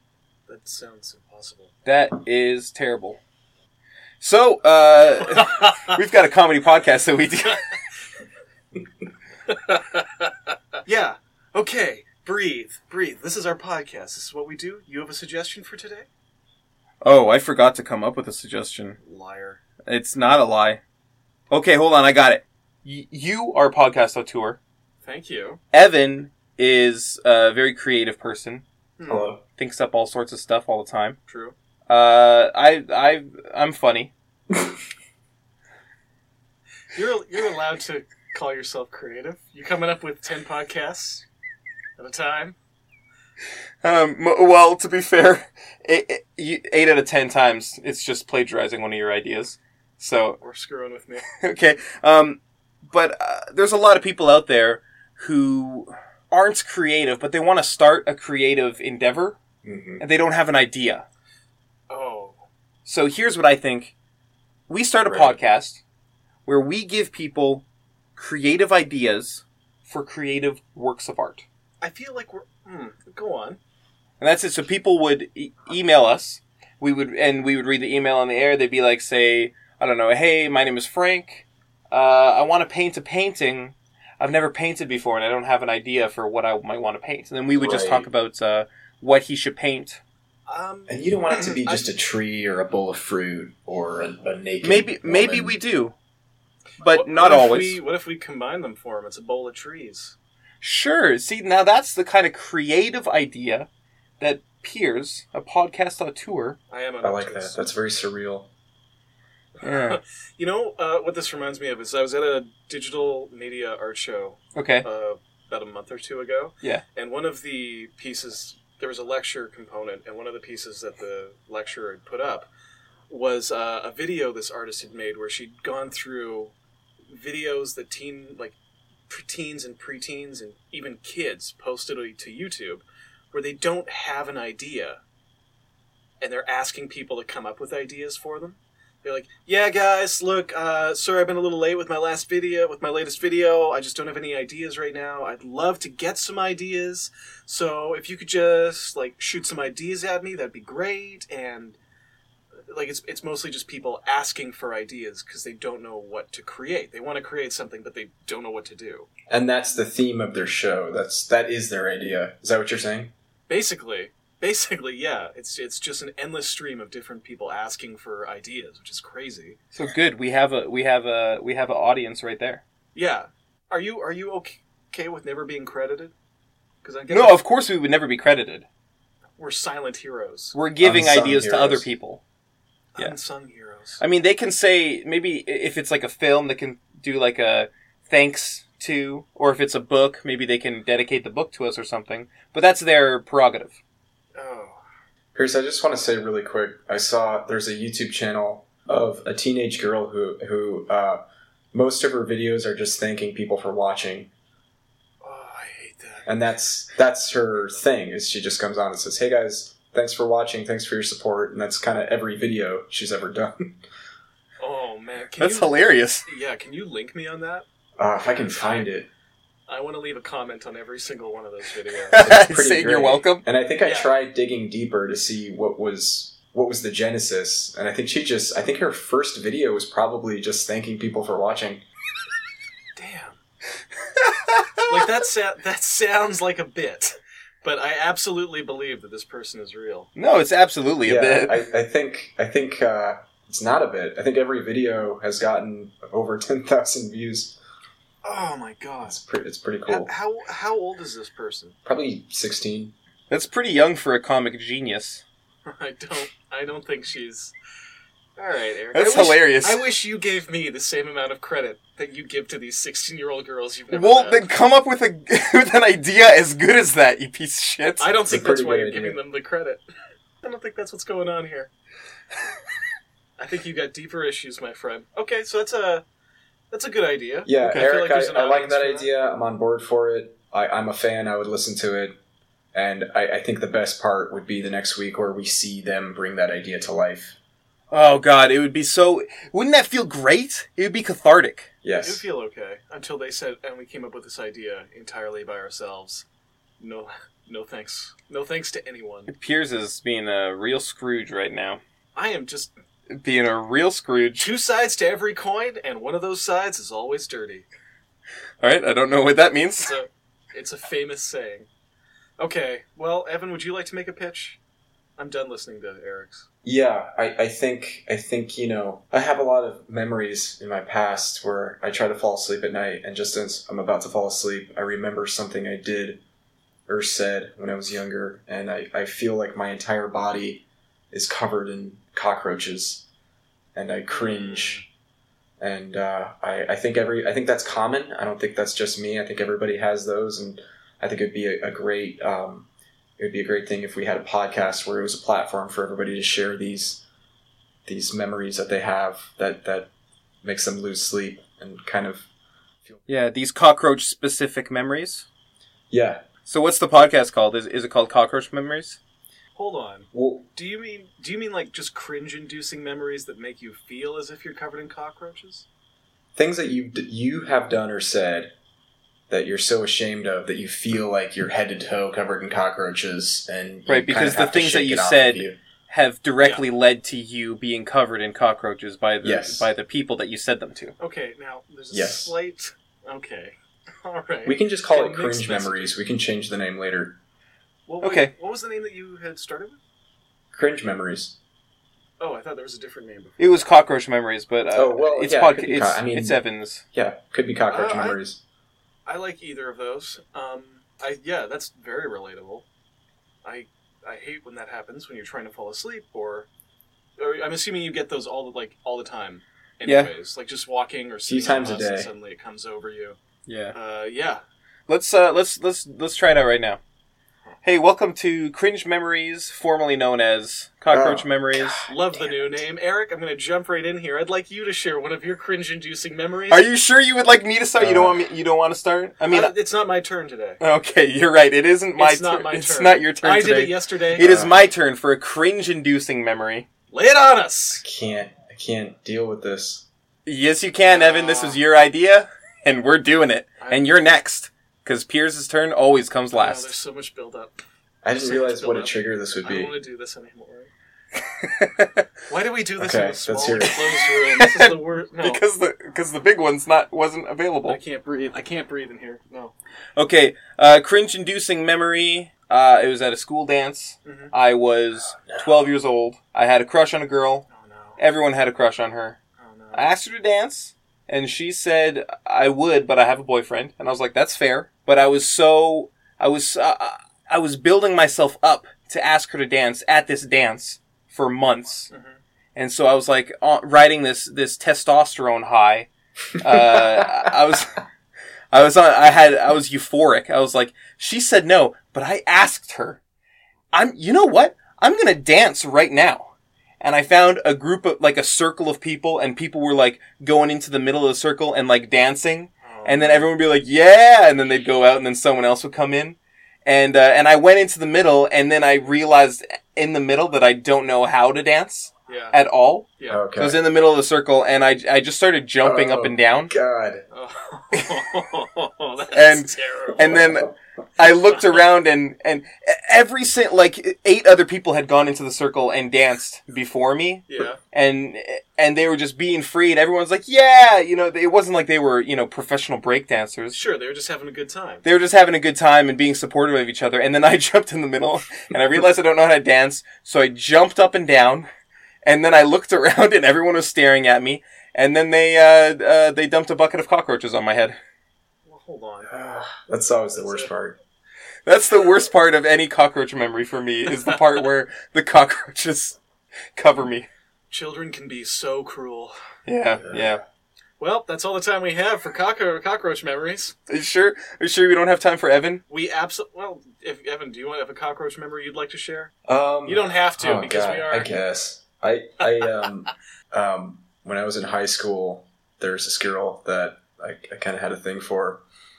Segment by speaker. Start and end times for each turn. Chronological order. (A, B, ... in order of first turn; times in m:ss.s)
0:00.5-0:01.7 A
0:01.8-0:03.2 B
0:04.2-0:07.6 B
0:05.2-0:06.0 A
0:09.5-0:10.2 A
0:10.9-0:16.1 A
0:17.0-0:19.0 B
0:19.0-0:19.6 A
0:19.9-0:20.8 B
0:21.5-0:24.6 B
0:25.0-0:25.6 A
0:25.7-0:28.6 B
0:29.0-0:29.3 A
0:29.1-0:29.4 C
0:29.6-0:31.2 B
0:31.3-0:31.6 A
0:31.9-0:34.1 B
0:36.9-0:41.3 A
0:42.0-0:42.6 A
0:43.8-0:50.4 B
0:50.4-0:51.3 A
0:51.3-0:59.4 B
0:59.6-1:00.0 C
1:00.0-1:01.1 B
1:01.9-1:02.4 A
1:02.9-1:03.9 B
1:04.7-1:05.8 B
1:05.0-1:05.4 C
1:06.5-1:07.7 B
1:08.2-1:11.4 B
1:11.8-1:13.6 A
1:14.2-1:30.0 B
1:27.6-1:28.1 C
1:30.5-1:31.8 A
1:30.9-1:35.6 C
1:34.6-1:35.9 B
1:36.8-1:37.8 B
1:36.8-1:40.2 A
1:40.6-1:43.7 B
1:44.2-1:46.6 B
1:46.7-1:47.7 A
1:47.0-1:48.5 C
1:49.6-1:50.0 B
1:49.6-2:02.5 A
1:54.6-1:54.9 B
2:03.1-2:06.5 A
2:07.1-2:08.6 A
2:09.1-2:15.0 A
2:16.2-2:31.8 A
2:32.7-2:39.1 A
2:39.3-2:43.1 C
2:43.5-2:49.6 A
2:49.7-2:52.6 B
2:53.0-2:56.1 A
2:56.8-2:57.4 A
2:57.1-2:58.7 B
2:59.4-3:00.6 A
3:00.5-3:02.2 B
3:00.8-3:01.9 C
3:03.0-3:04.0 A
3:04.0-3:13.8 B
3:14.4-3:14.8 A
3:15.4-3:21.2 C
3:21.7-3:24.3 C
3:25.2-3:26.3 A
3:26.3-3:33.8 C
3:34.6-3:37.7 A
3:35.4-3:36.3 B
3:38.0-3:39.1 C
3:38.2-3:38.9 A
3:39.7-3:42.3 A
3:42.1-3:43.4 B
3:42.2-3:51.8 C
3:43.8-3:44.1 A
3:53.0-3:53.4 A
3:54.2-3:55.1 B
3:54.9-4:00.1 A
4:00.2-4:01.7 B
4:01.0-4:07.6 C
4:08.2-4:09.2 A
4:09.0-4:10.1 C
4:09.9-4:11.8 A
4:11.8-4:12.9 C
4:13.3-4:15.2 B
4:15.6-4:17.5 A
4:18.4-4:24.5 A
4:18.9-4:19.8 B
4:23.9-4:28.2 B
4:28.0-4:29.8 A
4:28.3-4:29.2 C
4:30.4-4:31.7 A
4:33.4-4:36.0 A
4:36.7-4:39.1 A
4:37.5-4:42.2 C
4:42.7-4:47.4 C
4:47.9-4:51.7 B
4:51.8-4:52.2 C
4:52.0-4:56.2 A
4:56.8-4:59.3 A
4:59.3-5:01.8 B
5:02.2-5:02.7 A
5:03.1-5:04.5 B
5:04.4-5:07.7 A
5:08.6-5:09.9 B
5:09.8-5:11.7 A
5:12.4-5:14.6 A
5:15.2-5:16.5 A
5:16.6-5:26.2 C
5:26.9-5:33.0 C
5:33.8-5:34.8 C
5:34.1-5:34.9 A
5:35.6-5:42.7 C
5:43.2-5:47.0 C
5:47.9-5:49.9 C
5:50.4-5:52.3 C
5:53.1-5:55.3 B
5:55.9-5:56.2 C
5:56.5-5:59.0 B
5:59.6-6:05.7 A
6:00.1-6:00.5 C
6:06.4-6:08.5 C
6:09.3-6:15.6 C
6:13.9-6:20.9 B
6:19.2-6:19.7 C
6:21.0-6:25.9 A
6:21.9-6:22.3 C
6:24.4-6:27.2 C
6:27.9-6:29.8 A
6:28.0-6:28.3 B
6:30.5-6:31.4 C
6:32.2-6:33.6 A
6:33.4-6:36.8 B
6:34.7-6:38.4 C
6:37.7-6:38.2 A
6:39.1-6:42.7 A
6:43.4-6:46.5 A
6:47.2-6:53.2 A
6:49.8-6:50.1 B
6:51.3-6:52.1 C
6:53.5-6:53.8 B
6:53.7-6:54.4 A
6:54.9-6:56.8 B
6:57.6-7:01.9 B
7:00.9-7:02.6 C
7:01.9-7:06.7 A
7:06.5-7:09.5 B
7:07.8-7:08.2 C
7:09.3-7:10.6 A
7:10.6-7:16.7 B
7:12.0-7:14.2 A
7:14.2-7:14.6 C
7:16.9-7:17.8 A
7:17.8-7:19.8 C
7:20.2-7:26.7 B
7:20.8-7:21.6 A
7:23.6-7:23.9 A
7:26.3-7:27.6 A
7:28.0-7:29.7 C
7:28.2-7:30.7 A
7:31.2-7:32.1 B
7:32.3-7:35.4 A
7:32.8-7:33.8 C
7:33.7-7:37.8 B
7:37.7-7:39.5 A
7:40.0-7:47.5 B
7:44.0-7:44.3 A
7:45.2-7:45.7 C
7:47.5-7:48.0 A
7:48.0-7:49.2 B
7:49.4-7:49.9 A
7:49.7-8:01.9 B
8:01.9-8:02.2 A
8:02.6-8:07.8 B
8:06.4-8:07.3 C
8:08.5-8:13.0 B
8:13.7-8:36.5 B
8:22.6-8:23.3 A
8:32.1-8:32.4 A
8:33.0-8:33.2 A
8:33.1-8:33.6 C
8:35.6-8:37.0 C
8:37.1-8:40.2 A
8:39.1-8:53.6 B
8:47.3-8:47.6 A
8:53.5-8:54.9 A
8:54.8-9:01.5 B
9:02.0-9:07.8 B
9:08.5-9:09.1 A
9:09.1-9:10.8 C
9:10.2-9:10.5 A
9:11.5-9:16.0 B
9:13.9-9:14.4 A
9:16.6-9:17.1 B
9:17.5-9:19.1 A
9:19.5-9:20.2 B
9:19.8-9:20.2 C
9:20.8-9:23.6 A
9:23.7-9:25.6 B
9:25.7-9:29.1 A
9:29.3-9:38.4 C
9:29.7-9:31.1 A